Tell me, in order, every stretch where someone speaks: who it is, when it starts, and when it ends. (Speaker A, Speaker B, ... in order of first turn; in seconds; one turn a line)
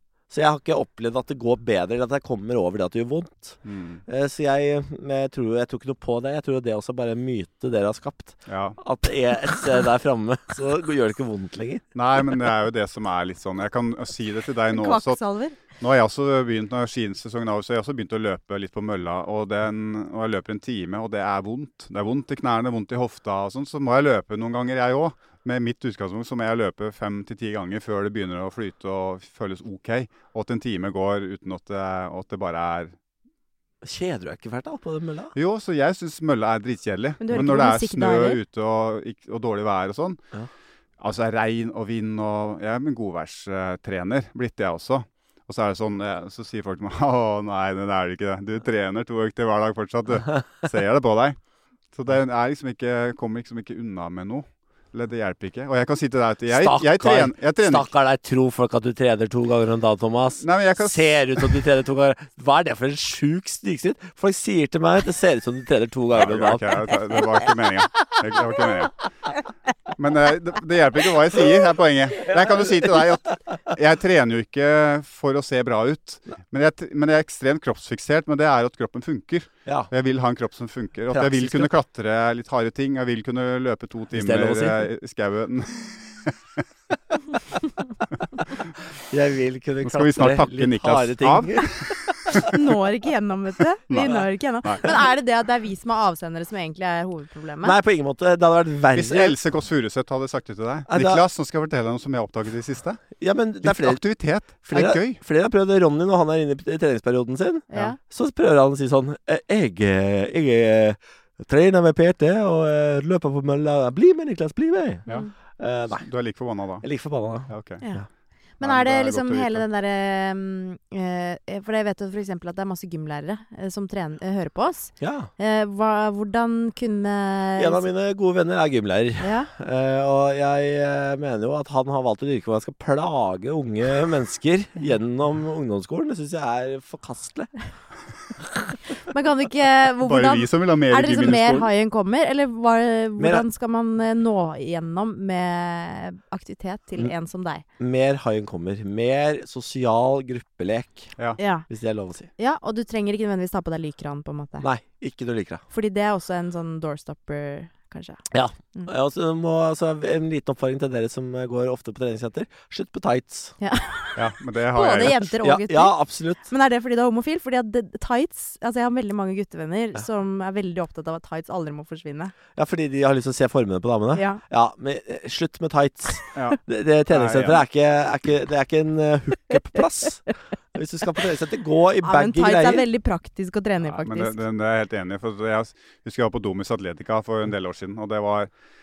Speaker A: 0.3-11.8
Speaker B: 3.6-4.0
Speaker B: 8.5-8.8
Speaker B: 11.9-15.2
Speaker C: 14.7-15.6
Speaker B: 15.8-32.9
Speaker A: 33.8-35.3
Speaker B: 35.4-40.2
Speaker C: 37.2-38.4
Speaker B: 41.0-51.4
Speaker B: 51.9-57.9
Speaker A: 56.5-66.7
Speaker B: 60.4-61.6
Speaker B: 66.1-69.0
Speaker B: 70.0-86.4
Speaker A: 72.3-73.0
Speaker A: 81.1-81.7
Speaker A: 84.1-84.9
Speaker A: 89.1-92.5
Speaker B: 89.8-92.4
Speaker C: 92.4-97.8
Speaker B: 93.9-94.9
Speaker A: 97.6-99.3
Speaker B: 98.9-105.2
Speaker A: 100.9-101.2
Speaker A: 103.2-104.0
Speaker A: 104.5-115.0
Speaker C: 107.7-108.0
Speaker C: 115.1-115.3
Speaker A: 115.6-116.1
Speaker B: 115.9-116.9
Speaker A: 116.8-118.0
Speaker B: 117.5-117.8
Speaker C: 118.6-127.9
Speaker B: 118.6-119.7
Speaker A: 125.0-125.3
Speaker A: 127.6-137.5
Speaker C: 129.2-129.5
Speaker C: 139.1-147.6
Speaker B: 140.0-141.7
Speaker A: 143.2-143.4
Speaker A: 147.8-151.1
Speaker C: 151.4-151.7
Speaker A: 151.7-152.3
Speaker C: 152.4-154.7
Speaker A: 154.6-155.6
Speaker C: 155.7-158.2
Speaker A: 158.3-163.5
Speaker C: 163.6-172.3
Speaker B: 164.2-165.3
Speaker A: 165.4-166.4
Speaker A: 172.6-182.9
Speaker C: 174.1-174.4
Speaker B: 176.3-177.6
Speaker C: 182.0-184.4
Speaker B: 183.8-188.5